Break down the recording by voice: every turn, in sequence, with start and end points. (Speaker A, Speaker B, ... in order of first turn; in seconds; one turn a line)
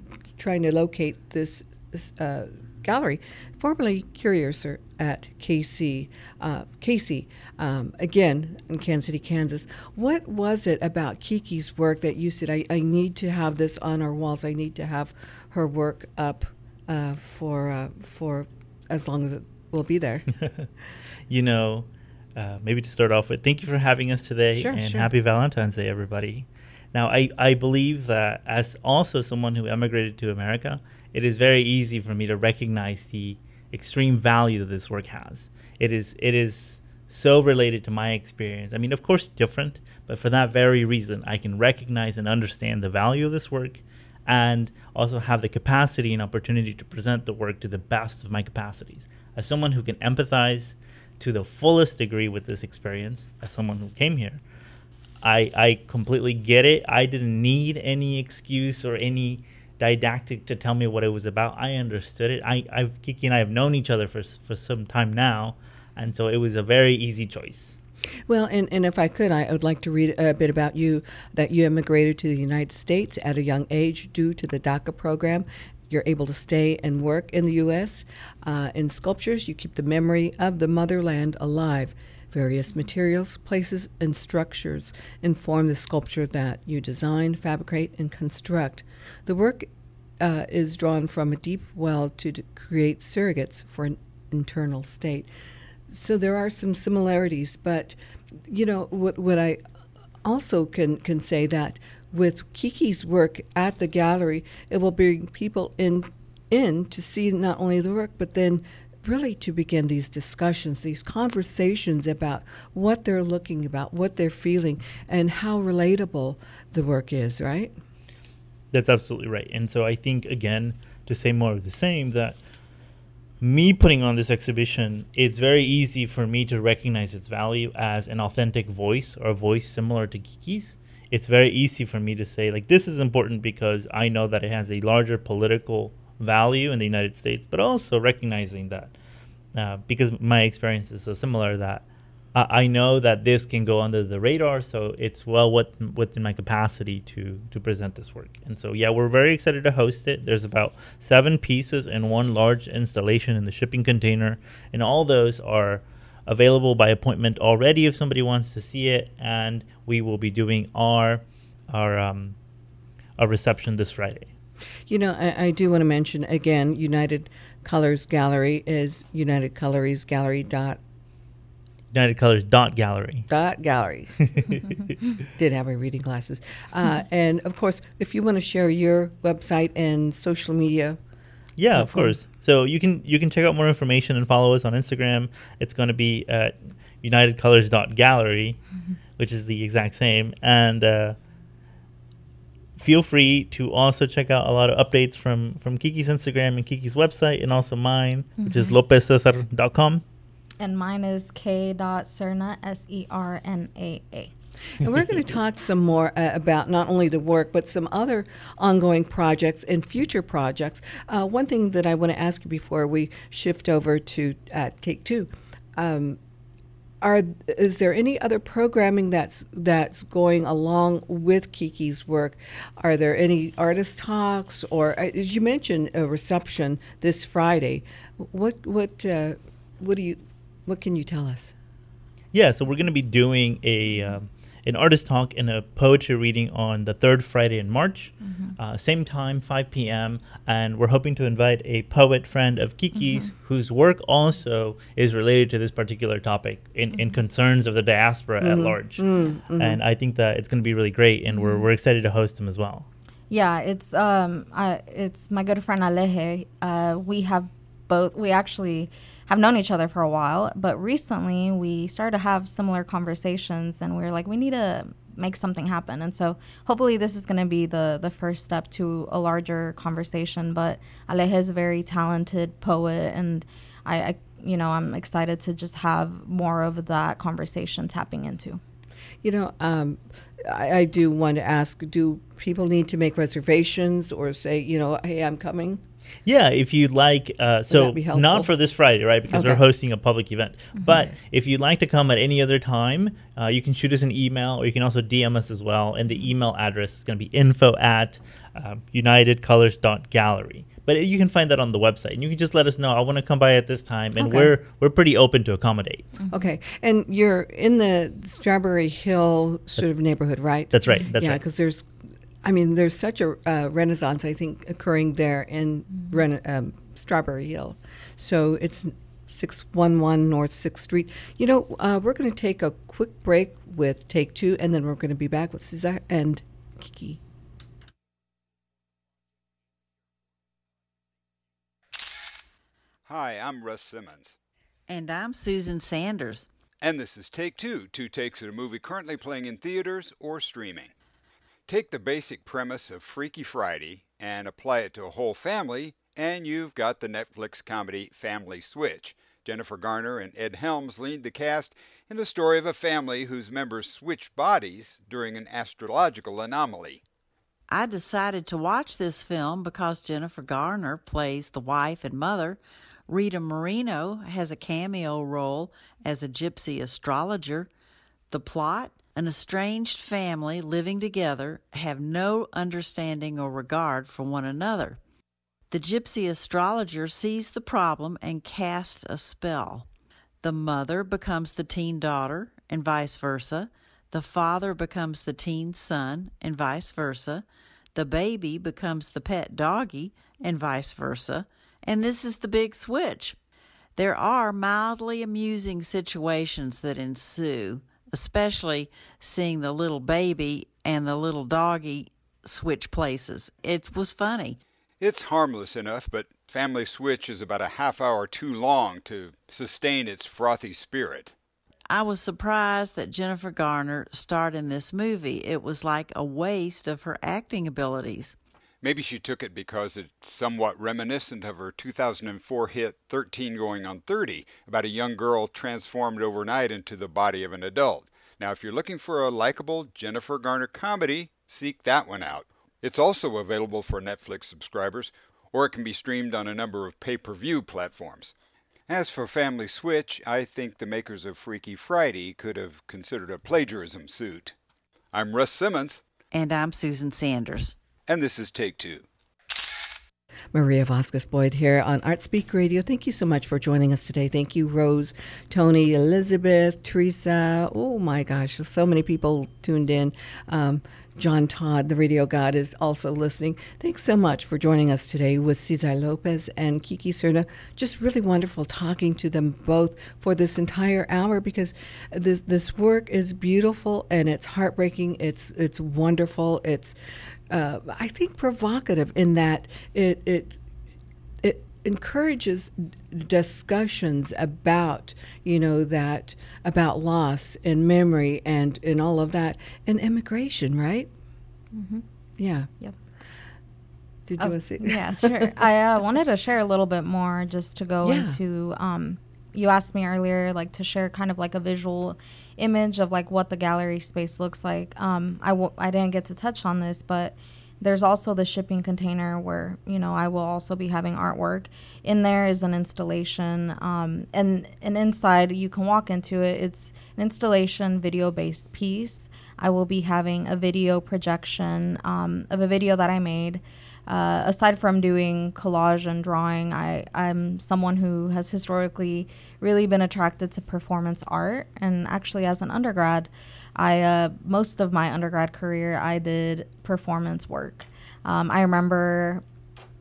Speaker A: 0.4-20.3
Speaker B: 20.4-20.7
Speaker B: 21.3-54.4
Speaker A: 24.5-25.1
Speaker B: 55.2-67.7
Speaker A: 68.3-89.7
Speaker A: 90.2-95.3
Speaker A: 95.9-99.6
Speaker A: 100.2-117.7
Speaker B: 118.7-122.4
Speaker B: 123.4-138.9
Speaker B: 139.6-162.4
Speaker B: 163.2-164.3
Speaker A: 164.9-170.8
Speaker B: 171.9-173.3
Speaker A: 173.3-174.6
Speaker B: 174.4-174.7
Speaker A: 175.3-181.0
Speaker B: 181.6-188.6
Speaker A: 181.7-182.1
Speaker B: 189.2-191.2
Speaker B: 192.8-200.0
Speaker C: 198.4-198.7
Speaker C: 200.6-204.3
Speaker A: 204.8-216.2
Speaker A: 217.0-231.5
Speaker B: 232.3-249.1
Speaker A: 248.4-249.8
Speaker B: 249.6-252.9
Speaker C: 251.4-251.6
Speaker C: 253.3-278.6
Speaker A: 279.2-285.8
Speaker B: 286.2-306.1
Speaker A: 287.7-288.5
Speaker A: 289.3-289.6
Speaker A: 304.2-304.5
Speaker A: 306.3-311.9
Speaker B: 310.7-311.4
Speaker A: 312.4-327.2
Speaker D: 333.1-334.4
Speaker E: 334.9-336.5
Speaker D: 336.8-340.9
Speaker D: 341.7-357.0
Speaker E: 357.7-367.7
Speaker E: 368.3-375.0
Speaker E: 375.7-379.9
Speaker E: 380.4-393.4
Speaker E: 393.9-404.6
Speaker D: 405.0-411.4
Speaker E: 411.9-418.4
Speaker D: 418.8-438.3
Speaker D: 438.9-444.5
Speaker D: 445.1-446.0
Speaker E: 446.3-447.8
Speaker D: 448.1-449.1
Speaker A: 450.5-476.9
Speaker A: 477.5-480.6
Speaker A: 481.4-491.1
Speaker C: 491.7-492.0
Speaker A: 492.4-492.7
Speaker A: 494.3-495.6
Speaker C: 494.4-539.4
Speaker A: 498.0-498.4